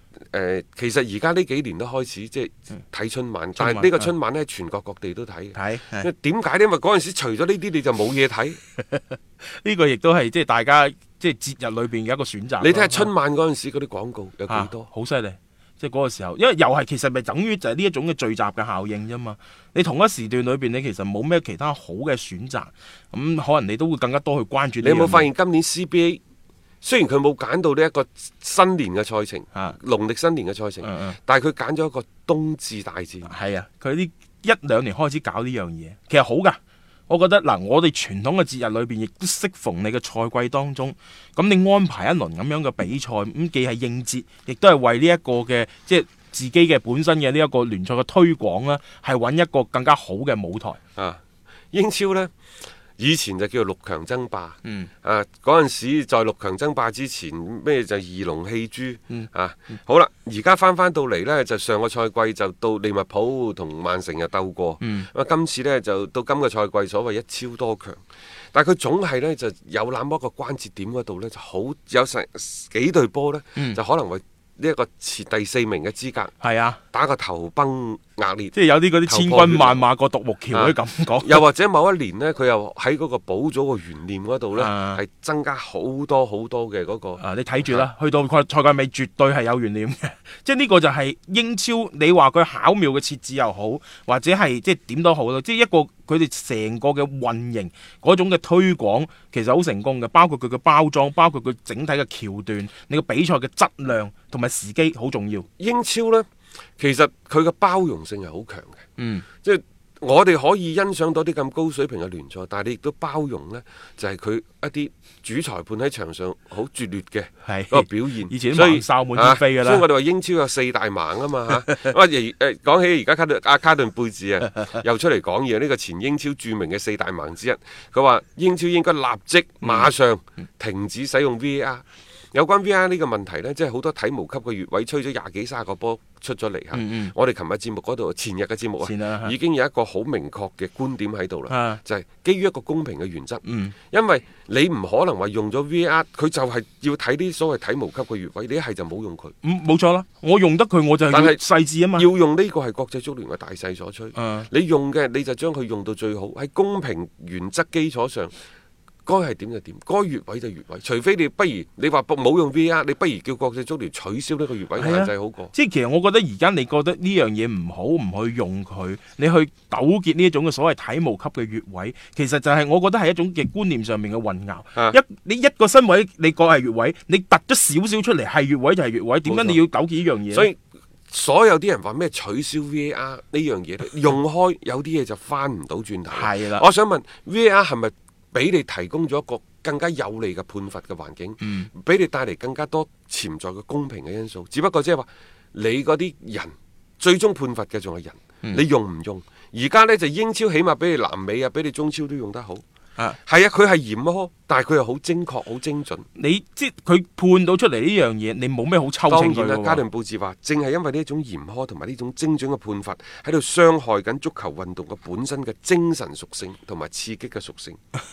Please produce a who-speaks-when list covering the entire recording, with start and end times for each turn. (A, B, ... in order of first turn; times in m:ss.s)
0:00.3-0:08.6 A
0:03.6-0:04.1 B
0:05.6-0:06.1 B
0:08.8-0:13.1 B
0:12.6-0:14.9 A
0:14.5-0:25.3 B
0:24.8-0:26.2 A
0:26.8-0:33.3 A
0:30.8-0:31.2 B
0:33.3-0:50.8 B
0:51.7-0:52.3 A
0:53.0-1:08.0 A
0:54.6-0:54.9 B
1:04.8-1:05.1 B
1:08.5-1:16.3 A
1:16.4-1:16.8 B
1:16.9-1:19.8 A
1:18.5-1:21.4 B
1:20.5-1:27.9 A
1:24.6-1:25.0 B
1:27.2-1:45.5 B
1:45.6-1:46.3 A
1:46.8-1:48.8 A
1:49.0-1:49.2 B
1:49.4-2:29.3 A
1:57.4-1:59.8 B
2:09.6-2:09.9 B
2:16.7-2:17.1 B
2:18.8-2:19.3 B
2:21.5-2:21.8 B
2:23.4-2:23.8 B
2:29.4-2:32.1 B
2:31.1-2:31.4 A
2:32.0-2:38.3 A
2:34.2-2:34.5 B
2:39.1-2:45.5 A
2:44.8-3:00.5 B
2:59.3-2:59.6 A
3:00.3-3:00.6 A
3:01.1-3:22.6 A
3:06.1-3:06.6 B
3:11.4-3:11.7 B
3:23.3-3:26.1 A
3:26.2-3:29.8 B
3:29.1-3:37.8 A